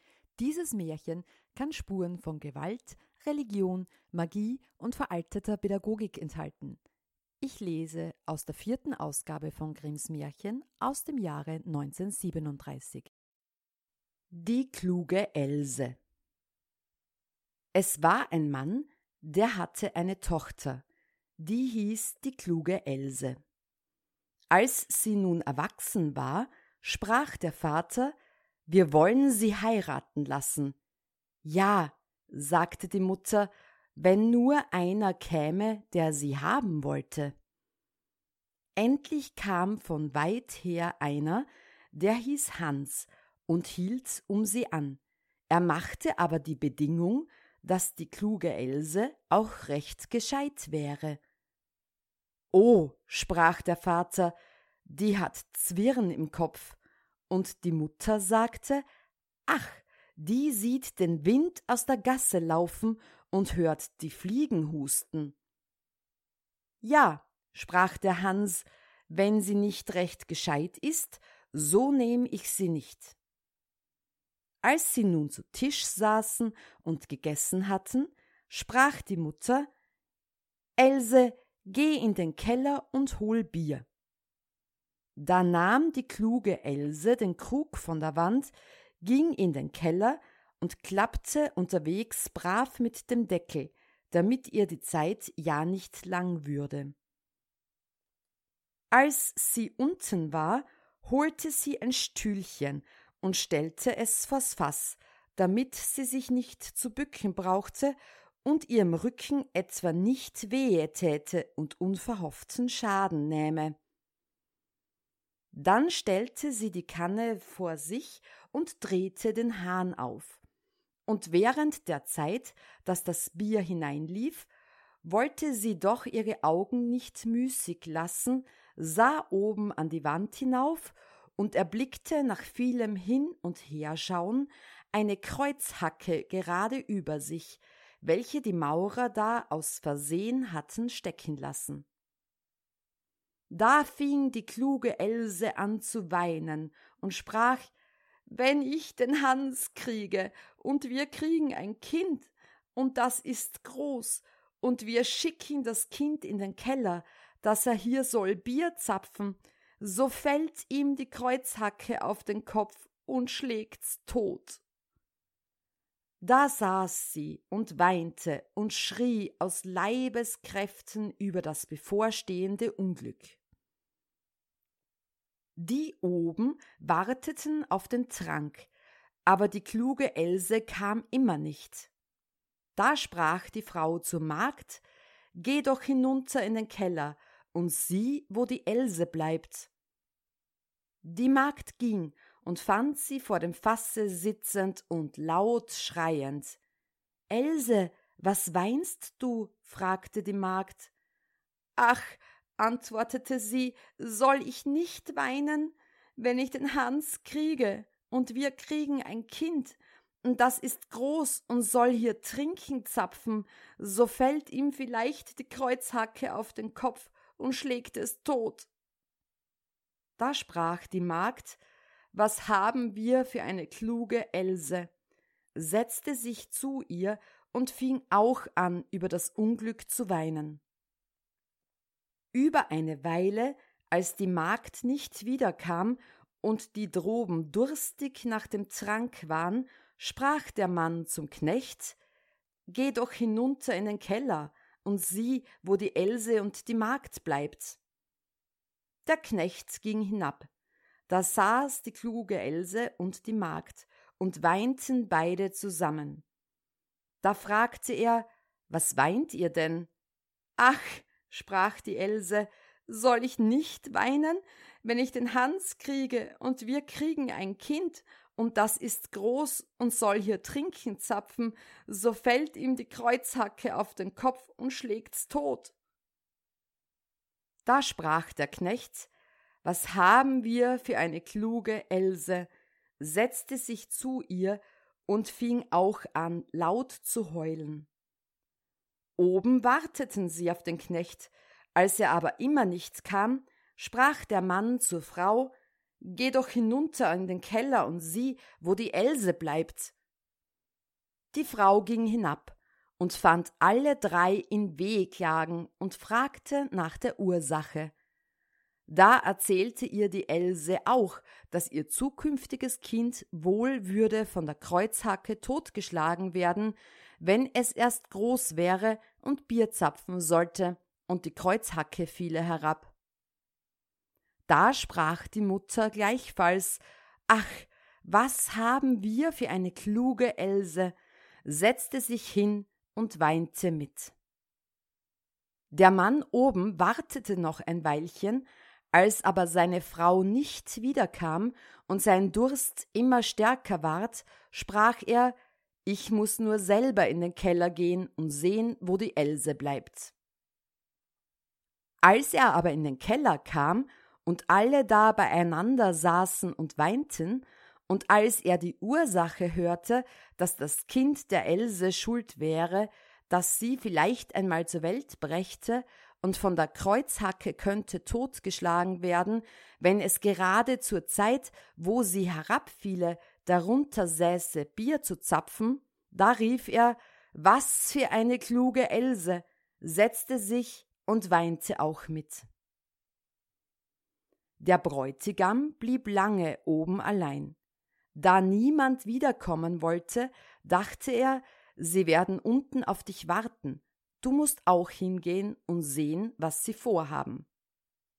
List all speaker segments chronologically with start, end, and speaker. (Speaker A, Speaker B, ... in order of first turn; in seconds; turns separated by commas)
Speaker A: 0.4-6.8, Speaker A: 7.4-13.1, Speaker A: 14.3-16.0, Speaker A: 17.7-20.8, Speaker A: 21.4-23.4, Speaker A: 24.5-28.1, Speaker A: 28.7-30.8, Speaker A: 31.4-37.3, Speaker A: 38.8-51.2, Speaker A: 52.5-54.3, Speaker A: 54.9-56.8, Speaker A: 57.3-58.8, Speaker A: 59.5-65.3, Speaker A: 66.8-73.2, Speaker A: 74.6-79.7, Speaker A: 80.8-83.8, Speaker A: 85.2-96.9, Speaker A: 98.9-113.8, Speaker A: 115.5-120.4, Speaker A: 121.1-124.5, Speaker A: 125.0-141.8, Speaker A: 143.5-147.7, Speaker A: 148.3-164.6, Speaker A: 166.2-173.4, Speaker A: 175.6-178.7, Speaker A: 179.2-181.9, Speaker A: 182.8-184.8, Speaker A: 185.3-189.7, Speaker A: 191.0-196.6, Speaker A: 197.3-200.9, Speaker A: 201.8-218.7, Speaker A: 220.2-221.6, Speaker A: 222.1-224.9, Speaker A: 225.5-230.6, Speaker A: 232.3-242.0, Speaker A: 242.7-247.8, Speaker A: 249.1-250.5, Speaker A: 251.1-256.2, Speaker A: 257.2-259.9, Speaker A: 260.6-275.7, Speaker A: 277.6-279.1, Speaker A: 279.6-282.5, Speaker A: 283.0-287.9, Speaker A: 289.2-299.9, Speaker A: 301.3-307.9, Speaker A: 308.9-322.9, Speaker A: 324.5-334.1, Speaker A: 335.7-350.1, Speaker A: 352.0-382.4, Speaker A: 384.6-387.6, Speaker A: 388.1-397.5